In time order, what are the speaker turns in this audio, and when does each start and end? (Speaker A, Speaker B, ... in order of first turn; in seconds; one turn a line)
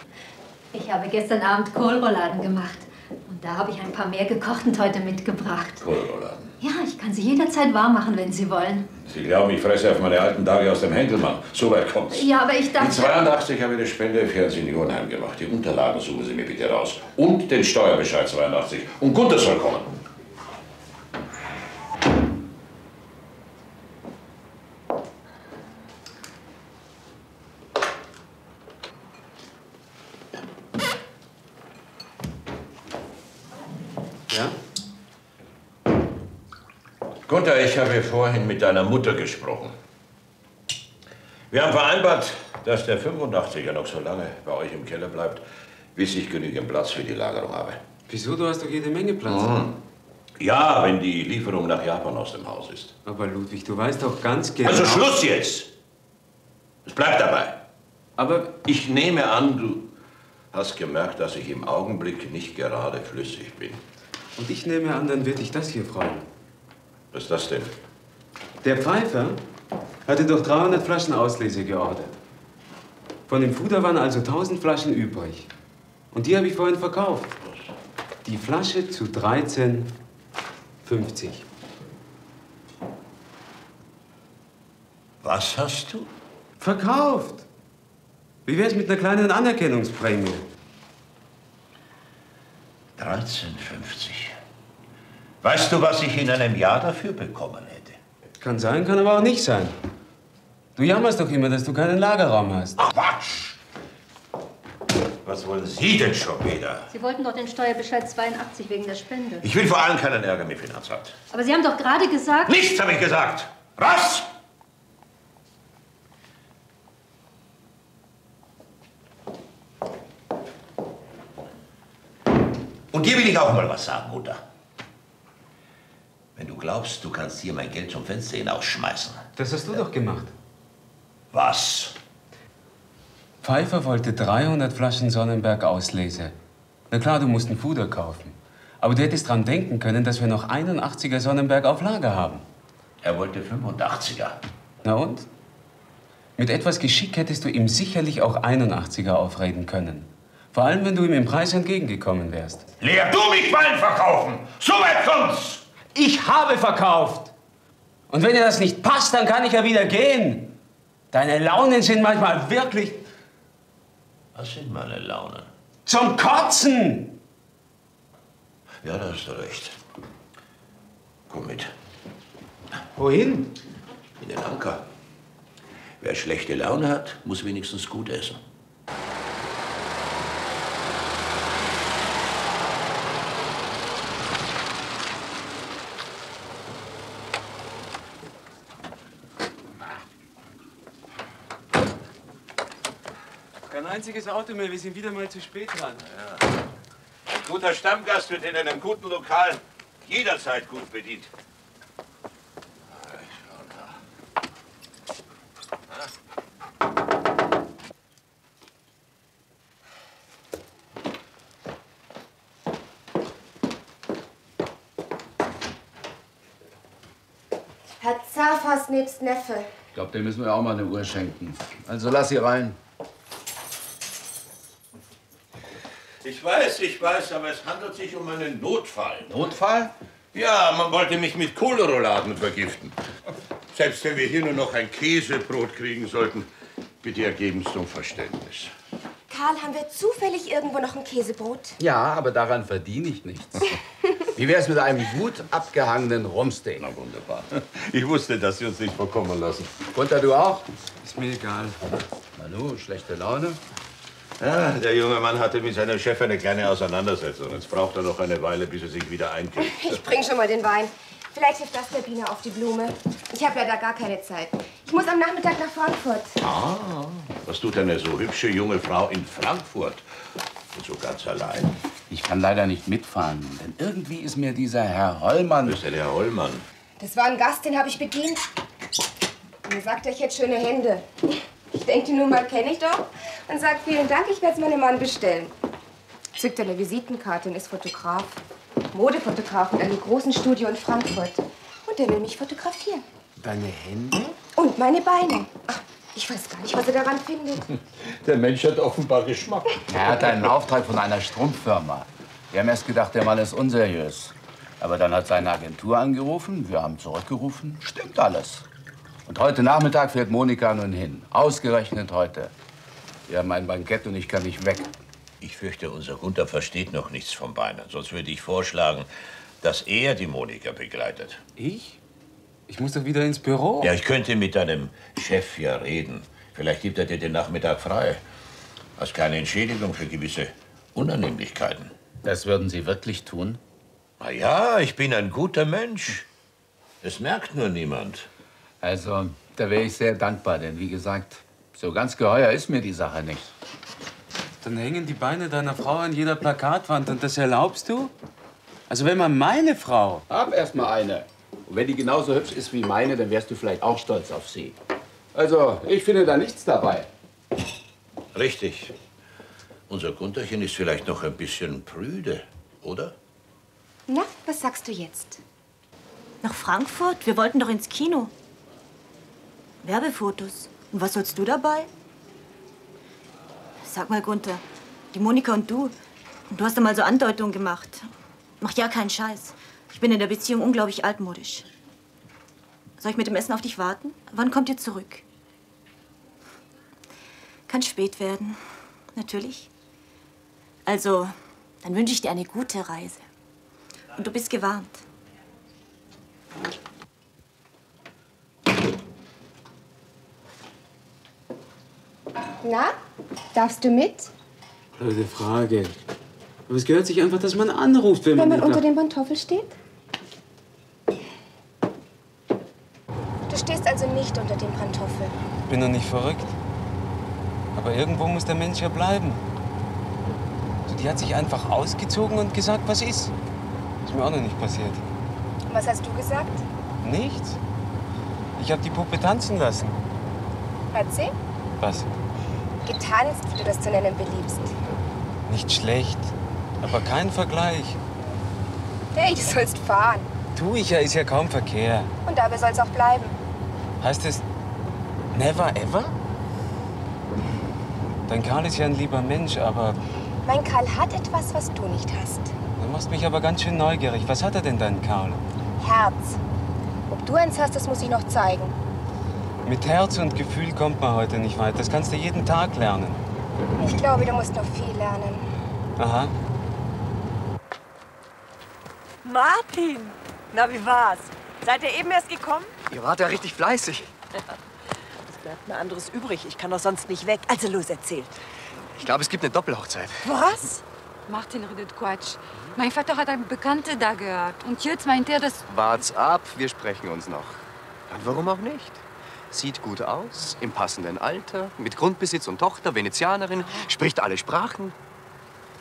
Speaker A: 0.7-5.8
Speaker B: 5.8-6.5
Speaker A: 6.6-8.9
Speaker B: 9.0-19.9
Speaker A: 12.1-13.2
Speaker C: 34.3-34.5
Speaker B: 37.3-39.7
Speaker B: 41.5-45.4
Speaker B: 45.9-47.8
Speaker C: 48.1-49.6
Speaker B: 49.2-49.7
Speaker B: 50.4-52.9
Speaker C: 53.0-55.0
Speaker B: 54.6-55.7
Speaker B: 56.9-57.6
Speaker B: 58.2-59.9
Speaker B: 60.5-63.8
Speaker C: 64.4-66.3
Speaker B: 67.1-67.7
Speaker C: 68.6-69.4
Speaker C: 70.0-72.1
Speaker C: 73.3-75.5
Speaker C: 76.1-77.4
Speaker C: 78.2-79.9
Speaker C: 80.8-81.4
Speaker B: 85.2-86.1
Speaker C: 86.6-87.5
Speaker C: 88.5-90.4
Speaker B: 93.0-94.3
Speaker B: 95.4-98.0
Speaker C: 98.4-99.8
Speaker C: 100.8-102.8
Speaker B: 102.8-103.5
Speaker B: 105.2-106.9
Speaker A: 106.9-109.4
Speaker B: 109.4-111.2
Speaker A: 111.3-112.6
Speaker B: 112.5-114.3
Speaker B: 122.9-124.4
Speaker B: 126.3-129.2
Speaker C: 129.4-130.3
Speaker B: 131.3-131.9
Speaker C: 133.4-136.3
Speaker C: 136.9-142.4
Speaker B: 143.0-144.4
Speaker C: 144.8-145.3
Speaker C: 146.4-152.7
Speaker B: 152.8-155.6
Speaker C: 155.9-157.3
Speaker C: 158.1-160.5
Speaker C: 161.1-163.0
Speaker B: 164.3-165.5
Speaker C: 165.8-167.2
Speaker B: 168.8-169.8
Speaker B: 171.3-171.7
Speaker C: 172.9-173.5
Speaker B: 174.2-174.8
Speaker B: 176.0-178.4
Speaker C: 193.7-196.0
Speaker B: 196.1-196.4
Speaker B: 197.3-201.3
Speaker B: 202.9-203.9
Speaker D: 218.0-219.7
Speaker E: 219.9-222.8
Speaker B: 226.2-229.8
Speaker B: 230.3-232.9
Speaker B: 233.7-236.5
Speaker B: 237.0-238.7
Speaker D: 239.3-241.8
Speaker E: 241.8-243.7
Speaker E: 244.3-246.8
Speaker B: 246.8-249.8
Speaker E: 249.9-250.7
Speaker C: 251.0-251.8
Speaker E: 252.3-253.6
Speaker B: 254.4-260.0
Speaker D: 259.6-266.4
Speaker B: 266.4-270.1
Speaker B: 270.7-271.7
Speaker E: 272.1-275.8
Speaker B: 275.6-276.6
Speaker D: 277.0-278.5
Speaker D: 279.7-281.0
Speaker D: 281.7-285.5
Speaker D: 286.4-288.4
Speaker D: 288.9-293.0
Speaker C: 293.4-294.3
Speaker D: 294.6-297.6
Speaker B: 298.0-300.2
Speaker E: 299.9-308.6
Speaker E: 309.2-312.5
Speaker E: 313.3-314.9
Speaker B: 315.4-319.1
Speaker B: 319.6-321.4
Speaker C: 321.6-322.0
Speaker C: 322.7-323.9
Speaker B: 323.8-328.2
Speaker B: 329.0-331.9
Speaker E: 332.2-333.6
Speaker B: 334.2-336.2
Speaker B: 337.0-338.3
Speaker E: 338.8-343.5
Speaker C: 344.6-348.1
Speaker C: 348.9-350.2
Speaker E: 350.3-354.7
Speaker E: 355.3-357.1
Speaker B: 358.3-358.9
Speaker B: 359.9-363.1
Speaker D: 364.1-365.4
Speaker F: 366.4-368.3
Speaker F: 369.8-371.9
Speaker F: 373.8-375.9
Speaker F: 376.5-378.1
Speaker F: 378.6-381.7
Speaker F: 383.0-385.2
Speaker F: 387.7-388.6
Speaker F: 389.1-389.7
Speaker F: 390.9-393.2
Speaker F: 394.1-395.0
Speaker D: 402.6-402.9
Speaker D: 403.5-404.3
Speaker C: 405.0-405.9
Speaker C: 406.7-408.8
Speaker D: 408.3-409.8
Speaker D: 413.5-415.3
Speaker C: 415.7-416.5
Speaker C: 417.7-419.4
Speaker C: 420.9-423.3
Speaker C: 424.0-425.0
Speaker D: 425.7-426.6
Speaker C: 427.0-427.6
Speaker C: 428.6-430.0
Speaker D: 430.9-431.3
Speaker C: 431.8-432.1
Speaker D: 432.9-434.7
Speaker C: 435.4-438.0
Speaker D: 439.1-440.3
Speaker C: 440.5-442.1
Speaker D: 442.2-443.3
Speaker C: 444.0-444.4
Speaker C: 445.3-446.1
Speaker C: 448.3-450.0
Speaker D: 450.4-452.5
Speaker C: 452.8-455.4
Speaker D: 455.8-456.4
Speaker D: 457.1-458.7
Speaker C: 459.6-463.2
Speaker D: 463.8-465.4
Speaker C: 466.0-466.3
Speaker G: 469.2-472.7
Speaker H: 472.9-474.1
Speaker G: 475.3-478.4
Speaker H: 478.9-480.3
Speaker G: 480.2-480.8
Speaker I: 481.3-485.6
Speaker H: 485.7-494.9